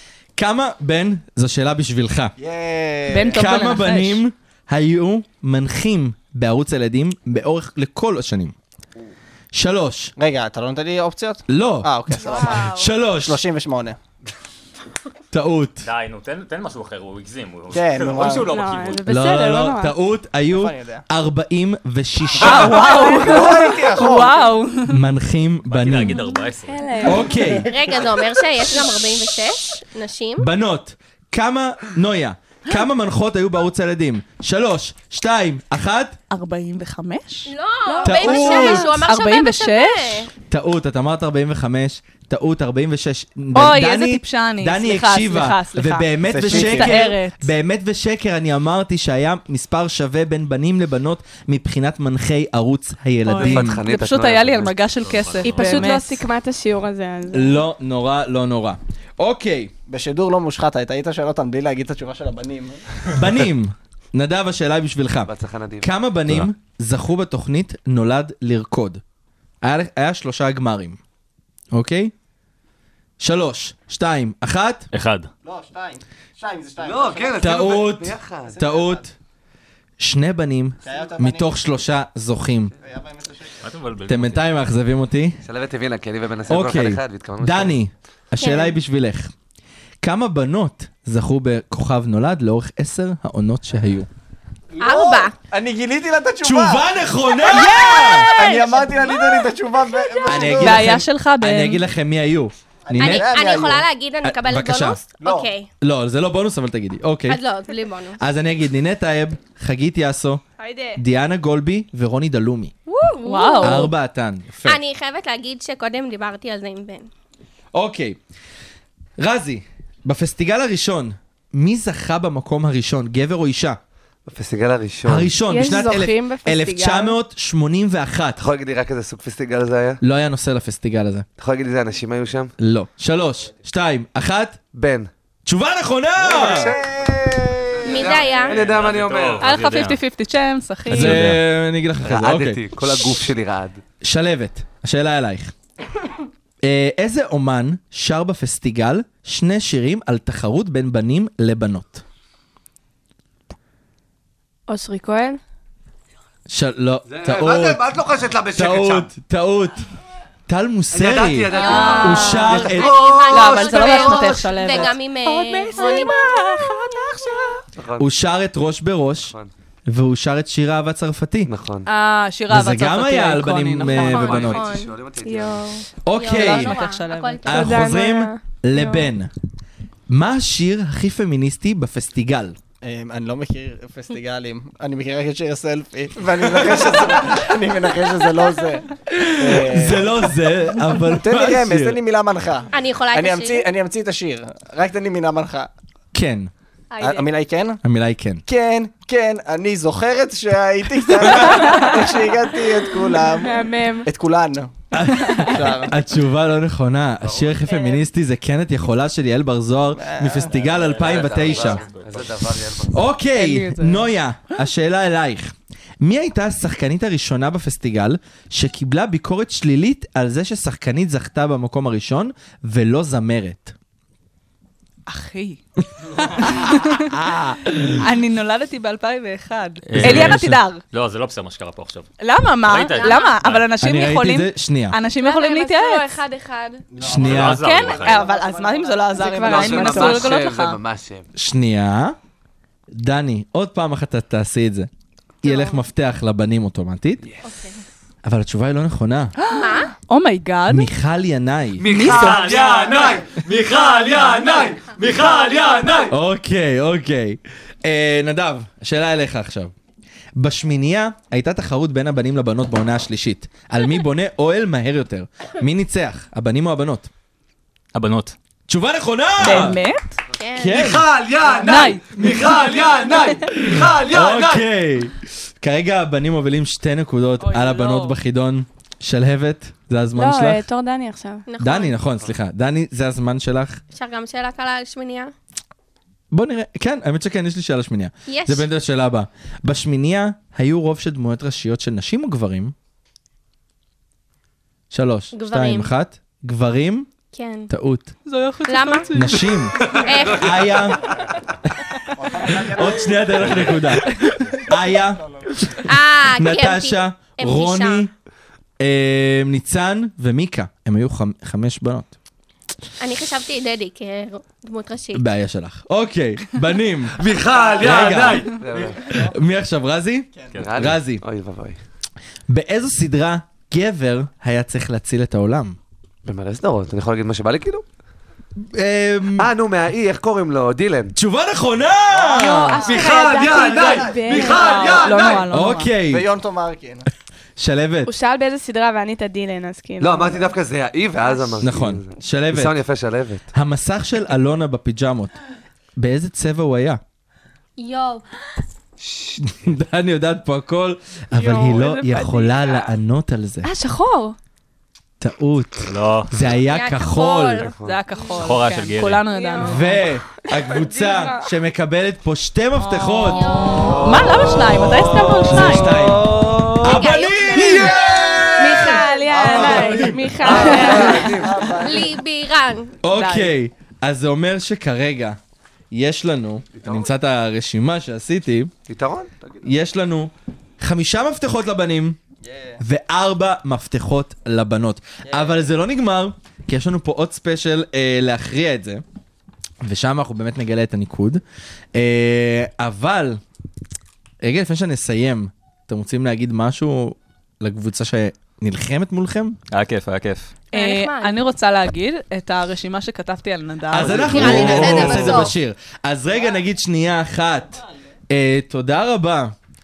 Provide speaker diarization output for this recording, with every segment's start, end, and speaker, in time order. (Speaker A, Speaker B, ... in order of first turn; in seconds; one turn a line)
Speaker A: 0.4-2.4
Speaker B: 2.4-3.4
Speaker C: 3.1-4.2
Speaker A: 3.3-8.6
Speaker A: 9.5-10.1
Speaker B: 10.2-14.0
Speaker A: 11.5-13.4
Speaker D: 12.2-12.8
Speaker A: 15.3-15.9
Speaker E: 15.8-19.1
Speaker B: 17.7-18.6
Speaker D: 18.4-19.9
Speaker A: 19.1-23.2
Speaker B: 20.5-21.0
Speaker C: 22.4-25.0
Speaker D: 22.7-23.2
Speaker B: 22.8-24.5
Speaker A: 24.9-26.2
Speaker E: 25.7-27.5
Speaker D: 26.7-27.3
Speaker A: 27.0-27.7
Speaker F: 27.5-30.5
Speaker A: 30.4-36.2
Speaker C: 36.3-40.3
Speaker F: 37.5-40.3
Speaker D: 37.9-38.3
Speaker A: 38.0-38.9
Speaker A: 40.5-53.8
Speaker C: 43.5-47.5
Speaker B: 46.2-47.0
Speaker C: 53.3-56.3
Speaker G: 53.4-54.9
Speaker E: 55.0-55.9
Speaker D: 55.4-57.6
Speaker A: 57.3-59.7
Speaker B: 59.9-62.8
Speaker A: 63.1-69.0
Speaker G: 65.2-65.9
Speaker A: 69.6-71.0
Speaker A: 71.7-72.1
Speaker A: 73.2-74.9
Speaker E: 74.9-75.3
Speaker B: 75.4-77.8
Speaker G: 76.8-78.5
Speaker A: 77.4-79.1
Speaker B: 78.5-79.0
Speaker A: 80.0-82.7
Speaker B: 80.8-81.6
Speaker B: 82.8-83.6
Speaker E: 83.6-84.4
Speaker A: 84.1-85.4
Speaker G: 85.4-87.8
Speaker A: 86.5-89.3
Speaker F: 88.4-88.8
Speaker A: 90.0-94.1
Speaker B: 94.8-96.9
Speaker F: 94.8-95.4
Speaker A: 96.4-98.3
Speaker C: 97.5-98.6
Speaker F: 97.8-100.6
Speaker B: 98.4-100.9
Speaker A: 100.3-103.4
Speaker C: 100.6-101.8
Speaker B: 102.9-103.8
Speaker F: 103.0-105.7
Speaker A: 104.2-105.0
Speaker B: 105.2-105.5
Speaker A: 105.8-107.4
Speaker F: 107.3-108.2
Speaker A: 108.2-110.4
Speaker D: 110.6-111.0
Speaker A: 111.0-112.7
Speaker D: 112.9-113.7
Speaker C: 113.2-113.9
Speaker F: 113.5-113.8
Speaker A: 113.6-114.8
Speaker F: 114.7-117.1
Speaker A: 117.7-118.2
Speaker A: 119.2-123.8
Speaker G: 124.3-125.3
Speaker A: 125.0-128.4
Speaker D: 125.5-127.2
Speaker G: 128.4-130.0
Speaker A: 130.0-131.3
Speaker G: 131.4-132.5
Speaker A: 132.6-134.6
Speaker G: 134.7-135.1
Speaker A: 135.5-136.8
Speaker G: 136.2-139.5
Speaker B: 136.5-138.3
Speaker F: 137.8-138.6
Speaker E: 138.5-140.0
Speaker C: 139.4-141.3
Speaker E: 140.9-141.4
Speaker A: 140.9-143.1
Speaker G: 142.0-143.8
Speaker A: 144.0-145.5
Speaker A: 146.6-152.0
Speaker D: 154.7-155.4
Speaker A: 156.5-157.9
Speaker G: 157.1-159.1
Speaker A: 158.5-159.9
Speaker A: 160.5-163.0
Speaker G: 160.9-164.8
Speaker F: 161.5-166.4
Speaker C: 161.5-162.8
Speaker C: 163.3-167.6
Speaker D: 165.8-166.1
Speaker G: 167.8-168.1
Speaker A: 168.0-169.3
Speaker A: 169.9-171.5
Speaker G: 171.5-171.9
Speaker C: 171.9-174.5
Speaker A: 172.5-174.6
Speaker G: 173.8-175.7
Speaker F: 174.0-175.0
Speaker D: 175.2-175.9
Speaker A: 176.1-176.8
Speaker F: 176.1-177.8
Speaker C: 176.3-177.4
Speaker D: 177.4-179.1
Speaker A: 177.4-179.3
Speaker A: 180.1-182.6
Speaker B: 182.8-190.2
Speaker A: 189.1-192.0
Speaker B: 191.2-195.7
Speaker F: 192.7-193.7
Speaker A: 196.1-196.5
Speaker B: 197.0-197.8
Speaker A: 197.8-198.4
Speaker B: 198.5-204.7
Speaker D: 203.3-204.1
Speaker A: 204.9-211.8
Speaker B: 205.4-205.9
Speaker G: 207.2-207.6
Speaker F: 207.7-208.1
Speaker B: 209.9-210.5
Speaker E: 210.5-212.3
Speaker G: 210.8-213.1
Speaker A: 212.9-223.8
Speaker C: 213.3-214.1
Speaker C: 225.1-225.6
Speaker C: 226.1-227.1
Speaker A: 226.4-228.1
Speaker C: 228.0-230.8
Speaker E: 229.9-232.1
Speaker A: 230.0-230.6
Speaker C: 232.2-236.1
Speaker E: 232.7-233.7
Speaker F: 232.8-233.4
Speaker A: 233.8-235.0
Speaker D: 235.2-236.8
Speaker B: 236.9-239.2
Speaker A: 237.0-237.7
Speaker E: 237.2-238.2
Speaker G: 237.2-237.6
Speaker C: 237.4-240.8
Speaker D: 239.2-240.4
Speaker G: 239.4-241.3
Speaker A: 241.4-242.2
Speaker A: 242.9-244.9
Speaker A: 245.4-247.2
Speaker D: 245.4-245.8
Speaker F: 247.4-247.7
Speaker A: 248.2-249.3
Speaker C: 249.4-250.9
Speaker F: 249.5-249.9
Speaker A: 250.7-251.9
Speaker G: 251.8-256.1
Speaker C: 251.8-252.9
Speaker A: 256.1-259.7
Speaker A: 260.4-267.1
Speaker E: 267.9-268.4
Speaker A: 268.7-269.8
Speaker C: 269.4-270.2
Speaker F: 270.4-270.9
Speaker A: 270.6-271.2
Speaker G: 270.7-274.6
Speaker C: 271.6-272.0
Speaker A: 272.2-280.6
Speaker C: 277.4-278.2
Speaker D: 280.2-281.4
Speaker F: 281.5-282.0
Speaker A: 281.6-283.8
Speaker F: 283.9-285.3
Speaker A: 286.3-292.7
Speaker F: 288.3-288.7
Speaker A: 294.9-297.1
Speaker F: 295.3-295.9
Speaker F: 297.3-297.7
Speaker A: 297.7-298.1
Speaker C: 298.3-299.5
Speaker F: 298.6-300.9
Speaker A: 299.1-301.2
Speaker B: 302.2-303.2
Speaker A: 302.4-308.1
Speaker E: 303.5-303.7
Speaker B: 305.1-305.5
Speaker F: 305.8-308.1
Speaker A: 308.8-312.1
Speaker F: 313.0-315.3
Speaker A: 315.1-317.2
Speaker G: 317.2-319.1
Speaker B: 317.6-317.9
Speaker A: 317.8-321.2
Speaker B: 318.8-319.2
Speaker B: 320.4-320.7
Speaker E: 320.5-320.9
Speaker G: 320.6-321.8
Speaker A: 322.5-325.8
Speaker G: 326.3-327.8
Speaker A: 328.6-329.5
Speaker G: 329.4-331.1
Speaker A: 331.1-332.9
Speaker B: 332.3-333.1
Speaker D: 332.3-335.1
Speaker G: 332.8-335.5
Speaker B: 334.0-334.3
Speaker C: 334.5-335.9
Speaker A: 335.5-336.3
Speaker B: 336.1-337.1
Speaker A: 337.6-338.1
Speaker D: 338.1-340.4
Speaker G: 340.0-343.4
Speaker A: 341.6-342.8
Speaker A: 343.5-345.3
Speaker A: 346.0-347.0
Speaker F: 347.8-348.2
Speaker G: 349.0-349.7
Speaker A: 349.4-353.7
Speaker D: 351.4-352.6
Speaker D: 353.6-354.4
Speaker A: 355.2-357.7
Speaker E: 355.9-356.3
Speaker F: 356.6-357.7
Speaker G: 357.6-358.0
Speaker C: 357.8-360.0
Speaker E: 358.4-359.2
Speaker F: 359.3-360.0
Speaker A: 359.6-363.6
Speaker D: 360.6-361.4
Speaker C: 362.8-366.1
Speaker F: 363.2-364.3
Speaker A: 364.7-368.1
Speaker G: 365.6-367.0
Speaker F: 366.8-368.2
Speaker G: 367.8-371.6
Speaker D: 368.6-371.5
Speaker A: 368.7-370.4
Speaker C: 370.8-371.2
Speaker B: 370.9-372.1
Speaker F: 371.8-372.9
Speaker A: 373.0-375.4
Speaker C: 373.1-373.5
Speaker A: 375.9-378.7
Speaker G: 376.8-377.1
Speaker G: 378.9-379.7
Speaker A: 379.6-382.2
Speaker B: 382.4-382.8
Speaker A: 382.8-389.0
Speaker A: 389.8-391.4
Speaker A: 391.9-393.4
Speaker A: 394.4-399.6
Speaker E: 399.7-400.5
Speaker C: 400.7-404.6
Speaker F: 400.8-401.4
Speaker A: 403.9-409.5
Speaker G: 404.0-405.2
Speaker F: 404.1-405.6